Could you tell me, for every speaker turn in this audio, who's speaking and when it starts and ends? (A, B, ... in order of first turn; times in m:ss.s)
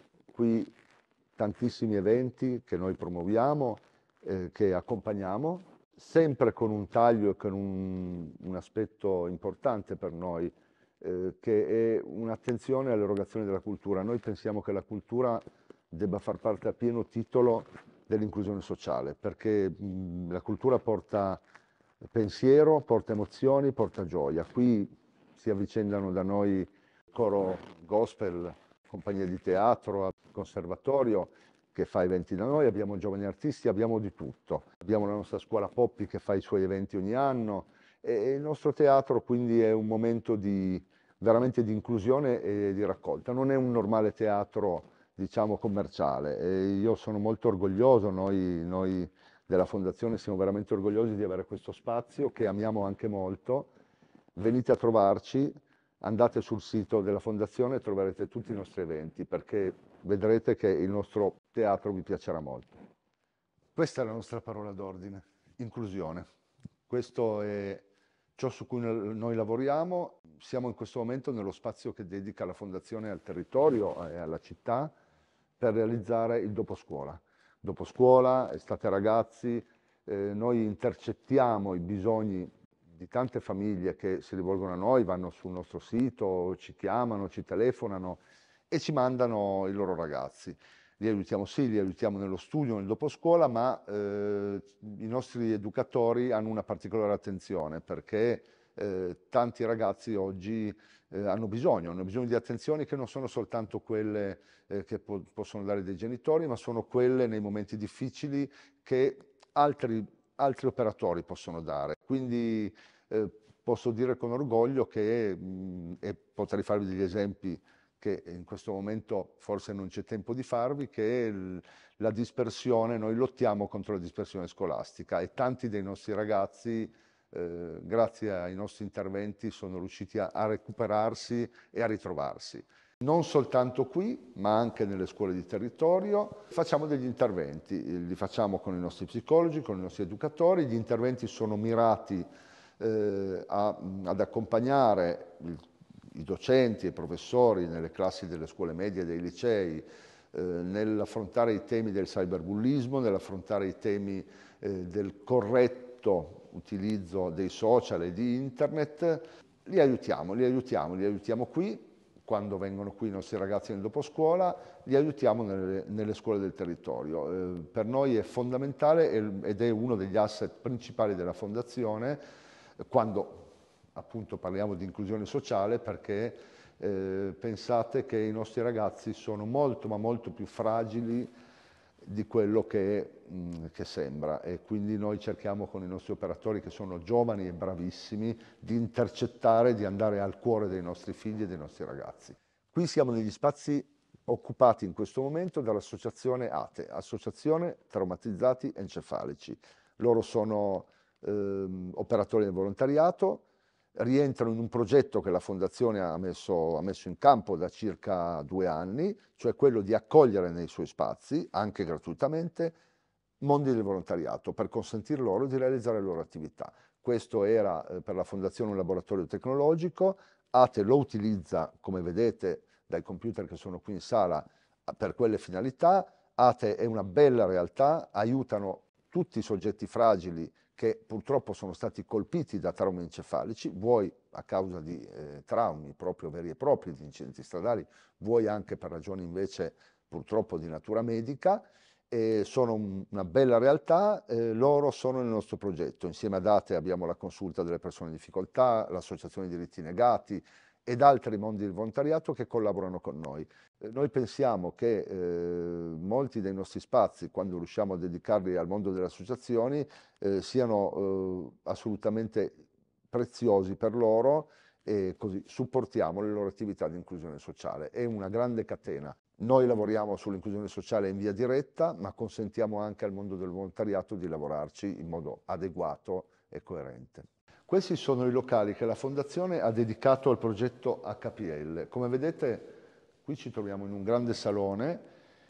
0:00.3-0:00.7 A
0:01.4-0:21.4 A
0:22.1-0:53.7 A
0:54.3-1:02.7 A
1:03.7-1:06.2 A
1:06.9-1:14.9 A
1:15.6-2:22.3 A
2:22.8-2:52.2 A
2:52.8-3:01.3 A
3:02.0-3:32.8 A
3:33.4-4:45.0 A